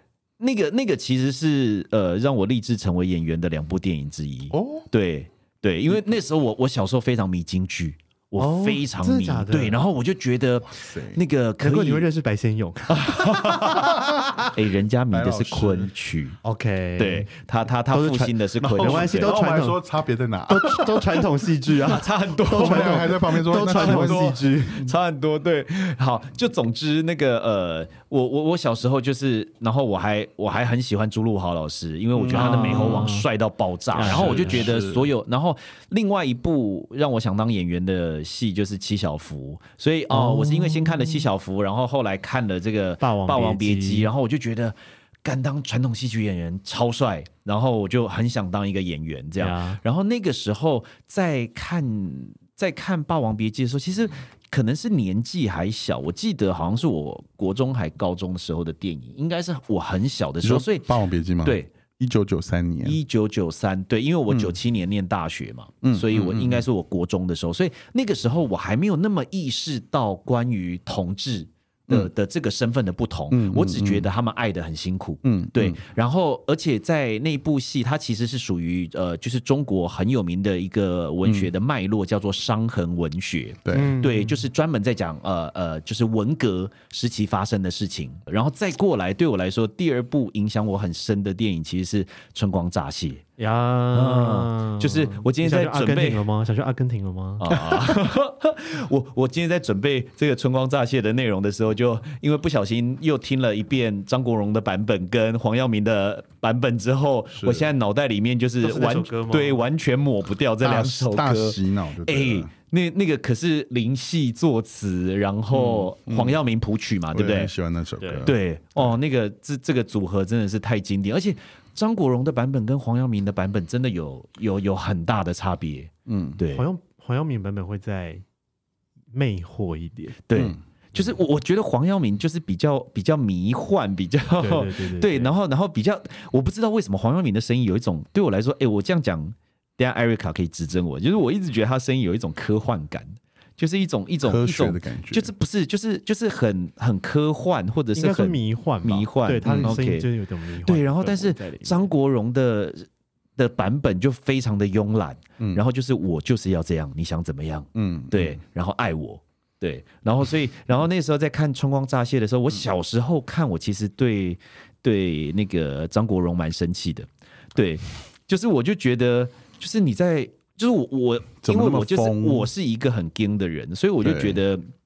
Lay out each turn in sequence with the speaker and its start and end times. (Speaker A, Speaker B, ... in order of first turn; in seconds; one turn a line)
Speaker A: 0.4-12.1
Speaker B: 4.5-4.8
Speaker C: 8.4-9.8
Speaker B: 10.7-11.2
Speaker C: 11.6-14.5
Speaker A: 12.9-13.9
Speaker B: 13.6-14.0
Speaker A: 14.5-16.4
Speaker B: 15.1-15.9
Speaker C: 16.4-17.3
Speaker A: 17.0-19.4
Speaker C: 17.9-19.8
Speaker B: 18.6-21.1
Speaker C: 20.5-24.9
Speaker A: 21.8-61.7
Speaker B: 22.5-24.4
Speaker B: 32.1-33.1
Speaker C: 32.3-33.3
Speaker C: 33.9-34.7
Speaker B: 34.0-35.1
Speaker C: 40.1-41.2
Speaker C: 43.0-44.1
Speaker C: 49.4-49.8
Speaker B: 60.4-63.0
Speaker A: 62.8-93.2
Speaker B: 64.3-64.6
Speaker B: 65.8-66.7
Speaker B: 73.3-74.1
Speaker B: 75.2-75.8
Speaker B: 81.2-81.5
Speaker B: 83.6-83.9
Speaker C: 83.7-84.4
Speaker C: 93.4-97.5
Speaker A: 93.9-96.2
Speaker A: 97.4-117.5
Speaker B: 97.5-97.8
Speaker B: 107.3-107.7
Speaker C: 108.6-109.6
Speaker B: 110.6-112.5
Speaker B: 115.5-116.4
Speaker B: 117.1-118.9
Speaker C: 118.0-118.3
Speaker A: 118.2-126.7
Speaker B: 126.1-126.4
Speaker C: 126.5-128.2
Speaker C: 129.1-130.2
Speaker A: 130.3-150.1
Speaker C: 134.4-135.3
Speaker B: 144.2-145.3
Speaker C: 147.9-151.9
Speaker B: 149.4-149.8
Speaker A: 150.6-174.6
Speaker B: 157.7-158.4
Speaker B: 171.4-172.5
Speaker B: 174.0-174.4